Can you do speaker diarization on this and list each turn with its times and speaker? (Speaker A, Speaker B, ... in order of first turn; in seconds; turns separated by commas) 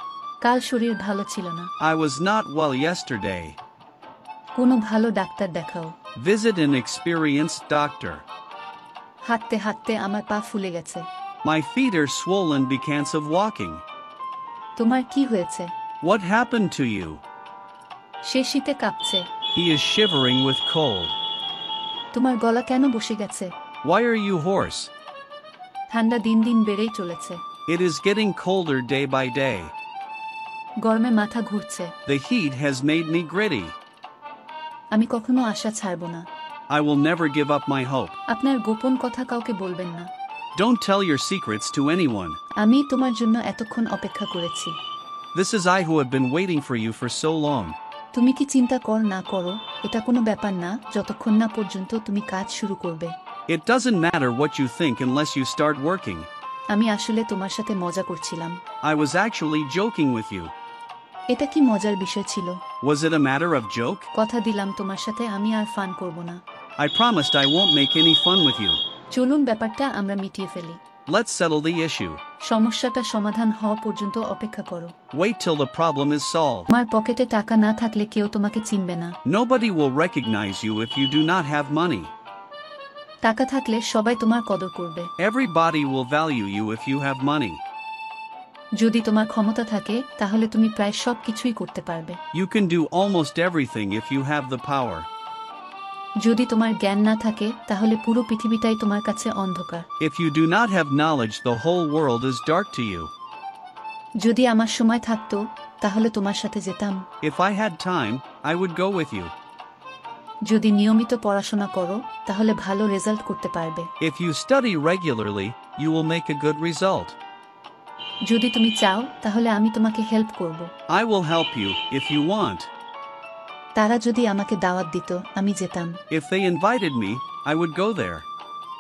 Speaker A: 0.4-1.7, Speaker B: 1.8-3.6, Speaker A: 4.5-6.0, Speaker B: 6.2-8.3, Speaker A: 9.2-11.1, Speaker B: 11.4-13.8, Speaker A: 14.8-15.8, Speaker B: 16.0-17.2, Speaker A: 18.2-19.3, Speaker B: 19.5-21.2, Speaker A: 22.1-23.5, Speaker B: 23.8-24.9, Speaker A: 25.9-27.4, Speaker B: 27.7-29.7, Speaker A: 30.8-32.0, Speaker B: 32.1-33.8, Speaker A: 34.9-36.3, Speaker B: 36.7-38.2, Speaker A: 38.3-40.1, Speaker B: 40.5-42.4, Speaker A: 42.6-44.8, Speaker B: 45.3-47.8, Speaker A: 48.1-53.2, Speaker B: 53.5-56.3, Speaker A: 56.7-58.6, Speaker B: 58.8-60.5, Speaker A: 61.3-62.6, Speaker B: 62.8-64.1, Speaker A: 64.1-66.4, Speaker B: 66.8-68.8, Speaker A: 69.1-70.8, Speaker B: 71.1-72.2, Speaker A: 72.4-75.0, Speaker B: 75.1-76.7, Speaker A: 76.7-79.2, Speaker B: 79.2-82.1, Speaker A: 83.2-85.1, Speaker B: 85.2-87.6, Speaker A: 88.8-92.2, Speaker B: 92.3-95.1, Speaker A: 96.2-99.9, Speaker B: 100.0-103.1, Speaker A: 104.2-107.1, Speaker B: 107.2-109.3, Speaker A: 110.4-113.9, Speaker B: 114.0-117.2, Speaker A: 118.2-120.7, Speaker B: 120.9-122.7, Speaker A: 123.8-126.0, Speaker B: 126.1-128.3